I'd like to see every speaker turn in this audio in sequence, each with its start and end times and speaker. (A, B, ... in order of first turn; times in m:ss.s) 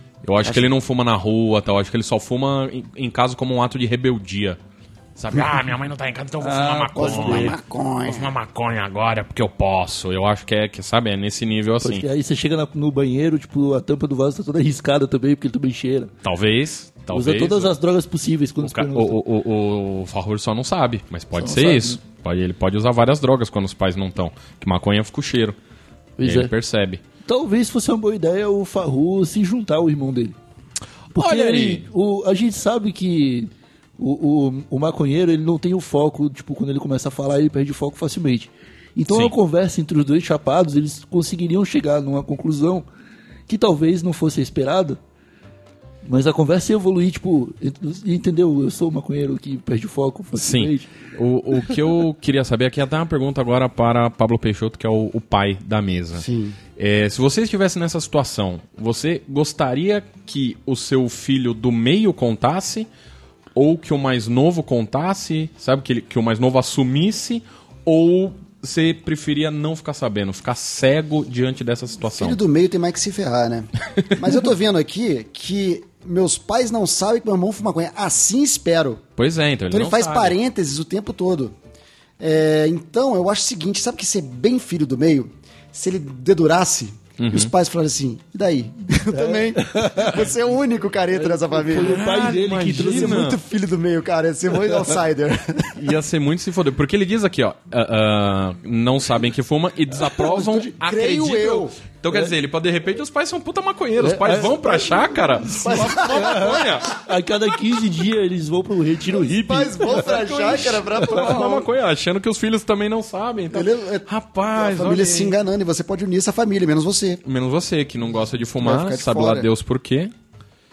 0:00.2-0:04.6 A
0:00.4-0:00.7 B
0:05.2-0:12.1 A
0:06.4-0:07.6 C
0:07.0-0:08.3 B
0:11.8-0:16.1 C
0:16.2-0:17.7 A
0:17.1-0:19.2 C
0:18.6-0:25.6 A
0:21.3-0:22.0 C
0:26.2-0:26.5 C
0:26.2-0:27.0 A
0:27.2-0:30.4 C
0:31.1-0:42.9 C
0:31.2-0:31.9 A
0:39.1-0:39.3 A
0:43.5-0:45.0 C
0:46.0-0:50.9 C
0:50.3-1:02.9 A
0:56.2-0:56.6 B
1:03.6-1:12.4 A
1:12.1-1:19.0 B
1:14.1-1:14.4 A
1:19.2-1:20.4 A
1:19.7-1:21.5 B
1:22.2-1:32.0 B
1:27.2-1:27.5 A
1:29.1-1:30.3 C
1:31.1-1:33.3 C
1:31.7-1:33.4 A
1:32.8-1:35.7 B
1:35.7-1:47.0 A
1:40.1-1:41.7 B
1:44.0-1:44.8 C
1:44.7-1:46.9 B
1:45.6-1:51.2 C
1:49.1-1:51.7 B
1:50.0-1:55.3 A
1:53.5-1:57.2 B
1:57.2-2:00.1 A
1:58.6-1:59.5 B